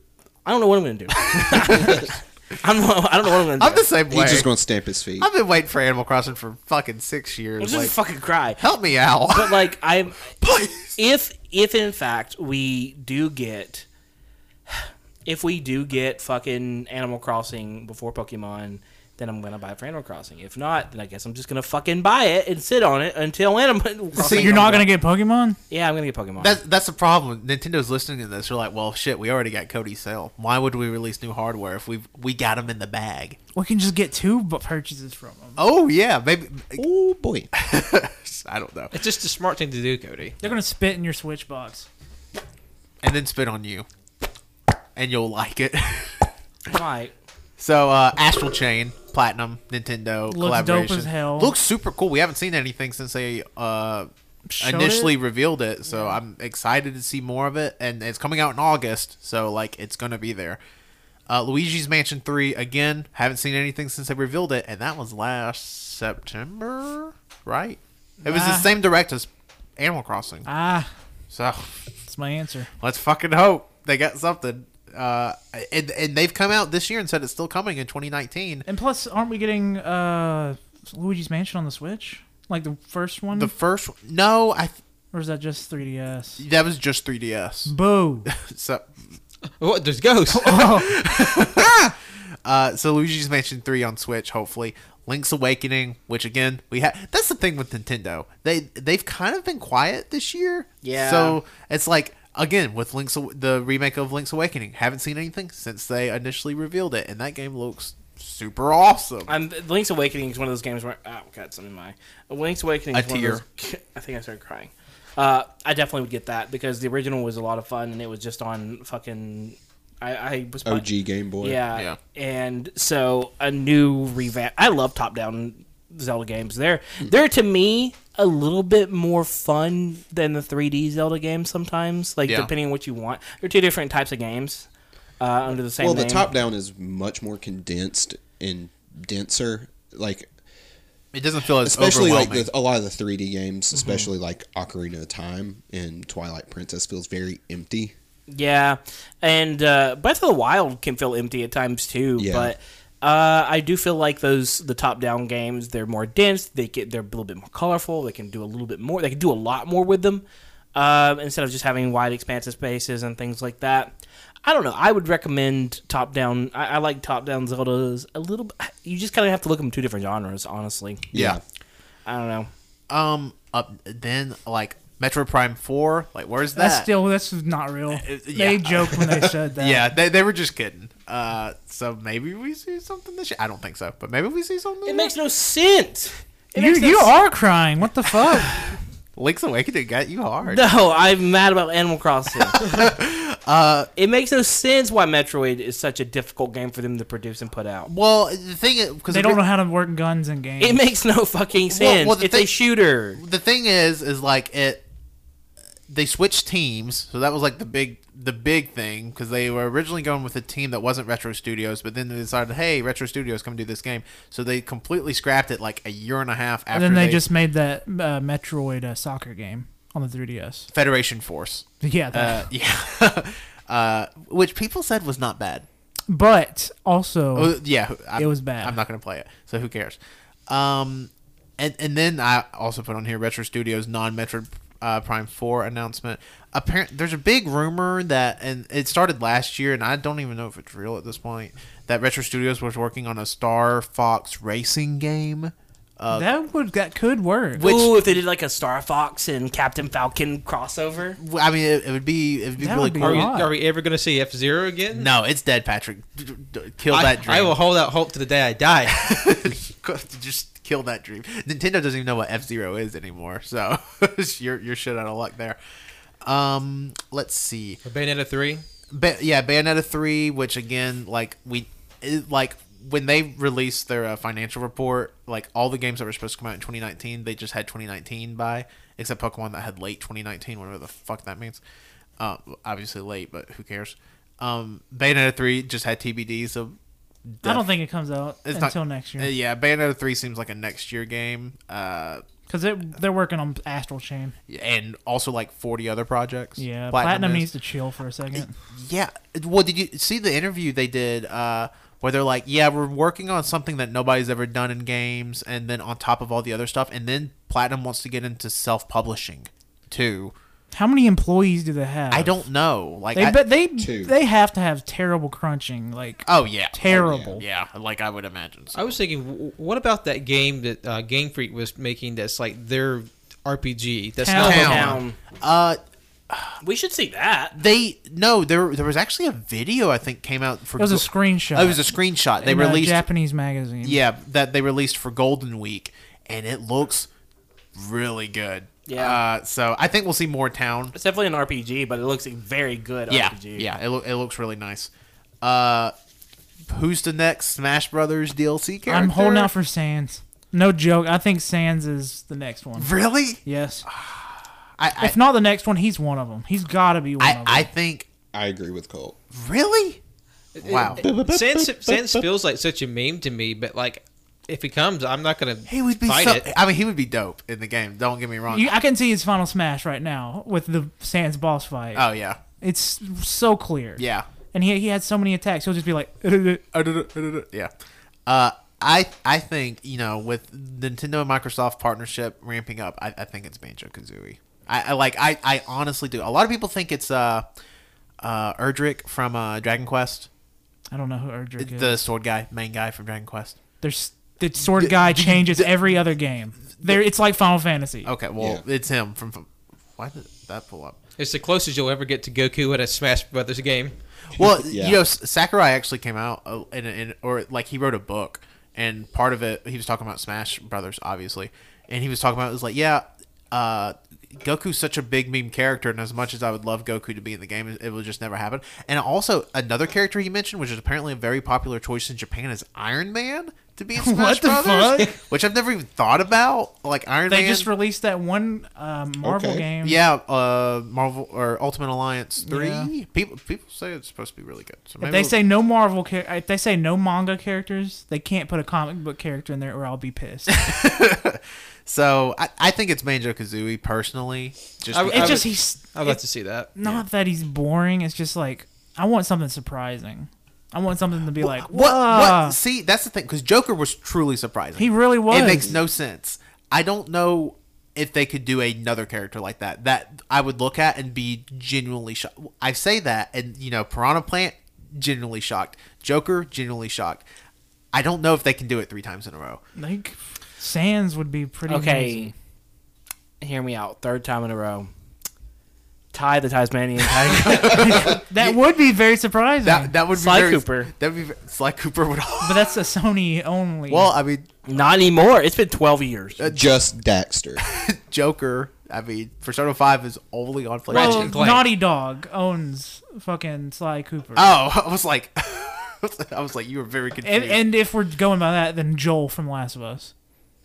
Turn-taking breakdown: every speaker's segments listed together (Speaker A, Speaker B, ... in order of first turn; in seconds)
Speaker A: 0.4-3.9, 7.6-8.7, 9.2-10.3, 10.9-13.8, 14.7-24.9, 25.7-26.6, 46.6-47.1, 100.8-101.4, 109.3-120.9, 121.4-134.7, 135.2-136.3, 143.7-144.1, 148.3-171.1, 172.1-172.5, 184.8-187.2, 190.4-192.7, 194.0-197.9, 200.6-203.2, 247.6-251.2, 324.3-325.2, 326.6-327.6, 338.9-339.2, 340.9-343.7, 471.7-472.3, 473.4-474.9, 476.1-478.1, 480.1-480.9, 484.6-486.5
Speaker B: 1.3-2.1, 3.6-4.5, 5.2-7.9, 8.6-9.7, 10.3-11.0, 24.1-24.7, 26.4-33.4, 35.6-36.8, 37.5-38.9, 43.0-43.9, 45.0-46.3, 47.6-54.1, 54.6-60.6, 61.3-70.5, 71.3-71.9, 72.8-78.6, 83.3-84.8, 86.4-87.7, 88.2-88.9, 90.5-109.3, 112.9-113.4, 132.2-132.5, 141.1-142.5, 171.1-171.4, 172.9-176.9, 177.9-185.1, 189.2-190.7, 192.5-193.9, 197.9-199.4, 201.7-202.5, 203.2-204.8, 205.9-217.2, 220.7-225.7, 227.3-246.3, 247.5-248.1, 251.2-253.3, 254.9-257.6, 258.9-265.6, 266.2-267.8, 268.9-281.6, 282.2-286.8, 287.3-287.7, 288.4-292.2, 294.5-297.5, 298.3-310.3, 312.1-313.4, 316.2-318.9, 324.4-326.5, 327.5-333.1, 333.8-337.1, 337.7-340.9, 343.1-344.9, 345.4-345.9, 346.7-349.5, 352.8-355.2, 357.2-358.1, 359.3-360.0, 360.6-362.2, 365.7-368.7, 371.9-372.4, 374.0-374.3, 376.7-377.7, 378.2-387.4, 388.2-390.3, 391.6-393.6, 394.6-396.0, 398.0-401.0, 404.3-427.7, 429.8-435.3, 440.5-445.5, 451.4-467.2, 467.9-469.6, 477.2-478.6, 479.6-482.7, 483.9-484.5, 486.4-486.7, 487.6-491.5, 494.3-497.6
Speaker C: 4.1-5.3, 36.8-37.5, 120.6-121.6, 135.8-140.3, 141.6-147.9, 152.2-152.5, 171.1-171.4, 313.8-314.1, 316.9-317.4, 358.3-359.2, 361.0-361.9, 398.4-398.6, 404.5-405.0, 429.2-429.7, 486.5-487.6
Speaker D: 24.2-25.6, 33.5-35.6, 40.4-41.9, 50.3-51.5, 54.5-55.1, 68.2-68.7, 70.4-70.9, 72.1-72.7, 78.7-83.5, 85.1-86.4, 87.7-88.3, 90.3-90.9, 176.6-179.9, 186.6-188.5, 199.1-200.8, 216.7-220.7, 221.8-222.5, 226.1-227.6, 228.1-228.8, 246.1-247.7, 252.6-253.5, 287.4-289.3, 292.5-294.4, 296.6-298.5, 310.7-312.4, 313.1-317.4, 324.2-324.9, 330.8-334.0, 348.9-352.9, 353.4-353.9, 355.0-357.7, 368.5-372.1, 372.6-376.6, 390.9-392.1, 393.8-398.1, 423.9-425.2, 427.3-430.0, 432.4-432.9, 435.0-440.6, 445.1-452.6, 454.8-455.8, 469.8-472.3, 477.6-479.9, 482.4-484.1, 490.9-494.5, 497.2-500.1
Speaker E: 38.9-40.4, 89.6-90.7, 253.0-255.1, 256.9-259.1, 267.8-268.6, 318.7-325.0, 360.6-366.4, 401.2-403.9, 444.9-446.7, 490.9-491.7